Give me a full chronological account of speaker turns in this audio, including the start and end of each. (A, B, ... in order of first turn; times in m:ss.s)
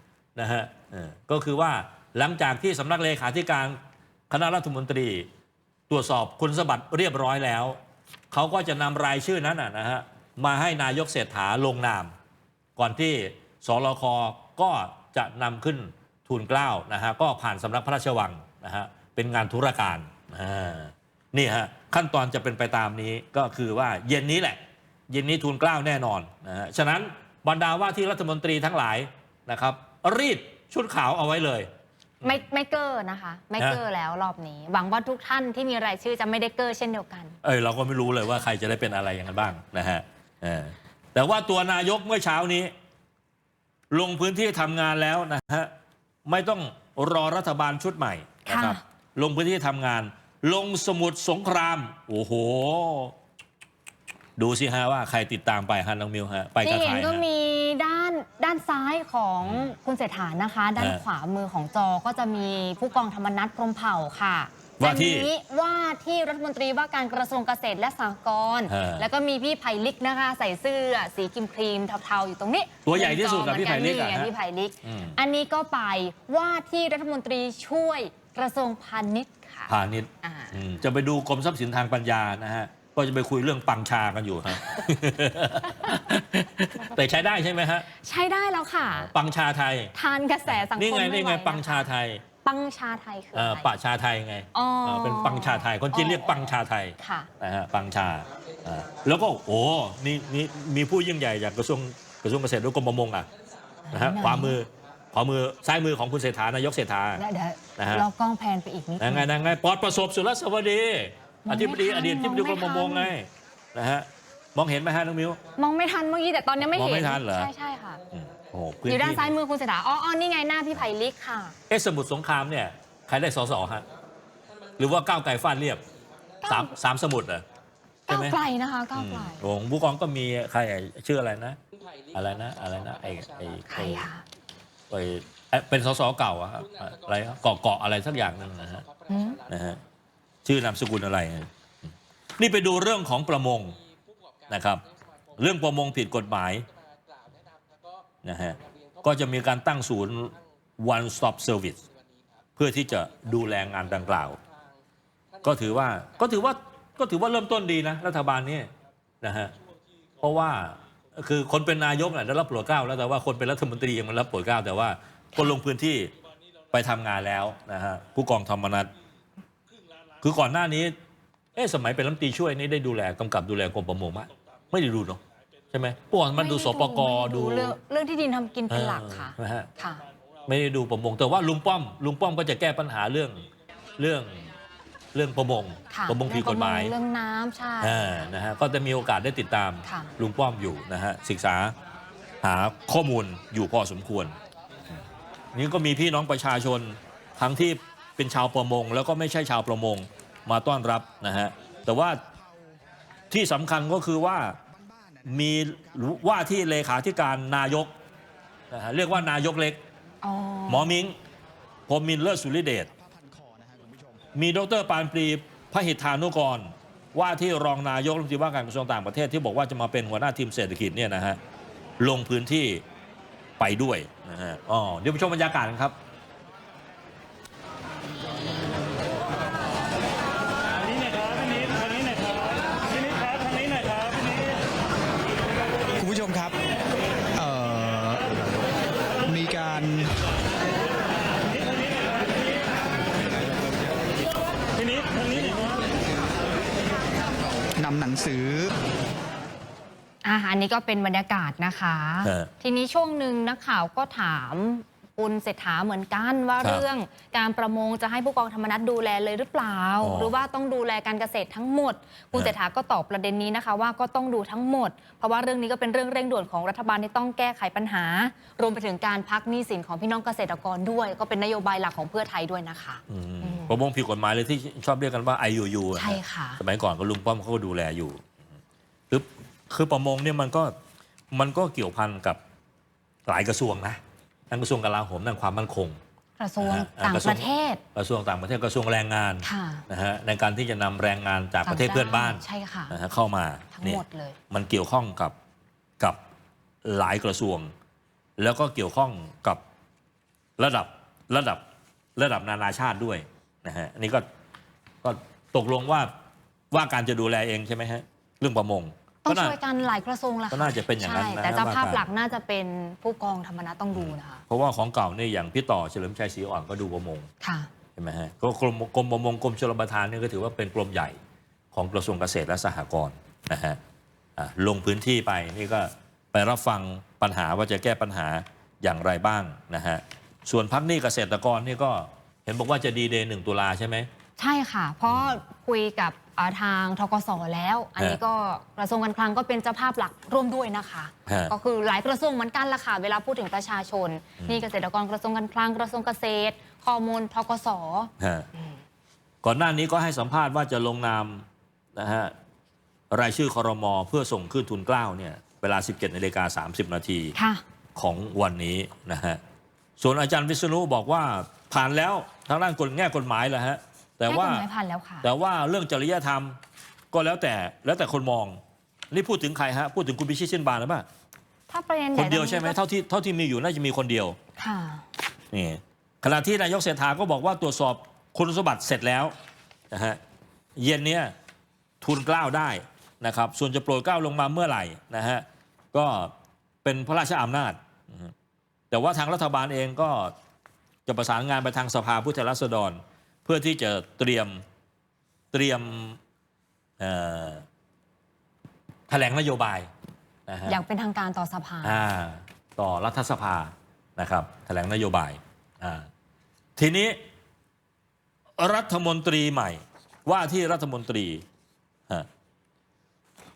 0:00.4-0:03.8 A
0:04.3-0:05.3 A
0:05.9-0:07.8 A
0:08.3-0:12.1 A
0:12.8-0:31.7 A
0:32.2-0:37.4 B
0:37.4-0:42.7 A
0:43.9-0:45.7 A
0:46.2-0:53.1 A
0:48.4-0:48.8 B
0:54.4-0:57.2 A
0:56.6-1:20.6 B
0:59.4-0:59.7 A
1:04.8-1:05.3 A
1:08.7-1:09.1 A
1:12.8-1:14.3 A
1:14.8-1:15.2 A
1:19.7-1:27.9 A
1:24.6-1:24.9 B
1:25.6-1:26.1 B
1:28.0-1:29.1 B
1:28.9-1:29.9 A
1:29.9-1:31.9 B
1:30.5-1:32.2 A
1:32.4-1:33.7 B
1:33.3-1:43.3 A
1:34.5-1:37.3 B
1:43.9-1:44.6 B
1:43.9-1:47.2 A
1:47.1-1:49.3 B
1:47.8-1:48.0 A
1:49.0-1:55.4 A
1:51.4-1:53.1 B
1:55.6-1:58.0 B
1:56.6-1:57.5 A
1:58.1-1:59.3 A
1:58.9-2:01.6 B
2:01.7-2:03.8 A
2:04.8-2:05.8 A
2:06.4-2:06.7 B
2:06.4-2:07.4 A
2:08.1-2:08.4 A
2:08.1-2:09.4 B
2:08.9-2:11.6 A
2:12.1-2:14.1 A
2:13.7-2:14.2 B
2:14.9-2:18.8 A
2:19.1-2:19.4 B
2:19.4-2:19.8 A
2:20.4-2:21.5 A
2:22.4-2:23.8 A
2:24.5-2:24.8 A
2:25.3-2:26.6 A
2:28.2-2:31.8 A
2:32.6-2:34.4 A
2:35.4-2:38.7 A
2:39.2-2:39.5 A
2:40.2-2:46.1 A
2:46.7-2:48.9 A
2:50.2-2:50.9 A
2:51.6-2:55.2 A
2:55.7-2:57.8 A
2:56.4-3:00.0 B
2:58.7-2:59.7 A
3:00.4-3:04.5 A
3:05.1-3:06.9 A
3:05.9-3:08.3 B
3:07.8-3:11.7 A
3:09.8-3:10.1 B
3:12.4-3:14.4 A
3:15.5-3:22.2 A
3:23.3-3:24.6 A
3:24.9-3:25.2 C
3:25.2-3:27.9 A
3:28.7-3:29.8 A
3:30.2-3:30.9 B
3:30.7-3:31.2 A
3:31.9-3:32.9 A
3:33.0-3:34.3 C
3:34.3-3:41.4 A
3:42.0-3:42.8 A
3:43.6-3:46.0 A
3:56.0-3:56.6 C
3:57.3-3:58.3 C
3:59.2-4:00.2 C
4:07.8-4:08.7 C
4:10.2-4:33.8 B
4:12.2-4:12.5 A
4:20.0-4:20.3 A
4:33.1-4:38.2 A
4:35.9-4:36.6 B
4:39.1-4:40.7 A
4:41.3-4:42.4 A
4:43.3-4:46.0 A
4:46.4-4:47.8 B
4:46.6-4:55.3 A
4:49.4-4:49.8 B
4:51.6-4:53.0 B
4:53.7-4:54.4 B
4:56.8-4:57.7 A
4:58.4-4:59.6 A
5:00.6-5:01.6 A
5:02.2-5:04.2 A
5:05.0-5:06.1 A
5:06.7-5:09.6 A
5:09.2-5:14.4 B
5:10.5-5:12.0 A
5:13.9-5:17.3 A
5:17.4-5:17.7 B
5:18.0-5:21.2 A
5:21.7-5:23.8 A
5:24.4-5:34.1 A
5:34.4-5:48.1 B
5:35.1-5:35.4 A
5:41.3-5:41.5 A
5:48.2-5:48.5 A
5:49.4-5:51.4 A
5:52.0-5:52.3 A
5:53.1-5:57.3 A
5:57.3-5:57.6 B
5:58.0-5:59.4 A
6:00.0-6:04.6 A
6:04.2-6:05.2 B
6:05.2-6:06.6 A
6:07.1-6:08.6 A
6:09.1-6:11.0 A
6:11.7-6:12.8 B
6:12.1-6:14.4 A
6:14.6-6:15.0 B
6:15.5-6:19.3 A
6:19.9-6:20.2 A
6:20.8-6:21.3 A
6:22.0-6:26.3 A
6:26.8-6:28.3 A
6:28.9-6:30.3 A
6:31.1-6:34.6 A
6:35.5-6:36.2 A
6:37.0-6:37.6 A
6:39.1-6:39.9 A
6:40.5-6:40.8 A
6:40.6-6:42.0 B
6:41.8-6:46.1 A
6:46.8-6:47.2 A
6:48.6-6:51.4 A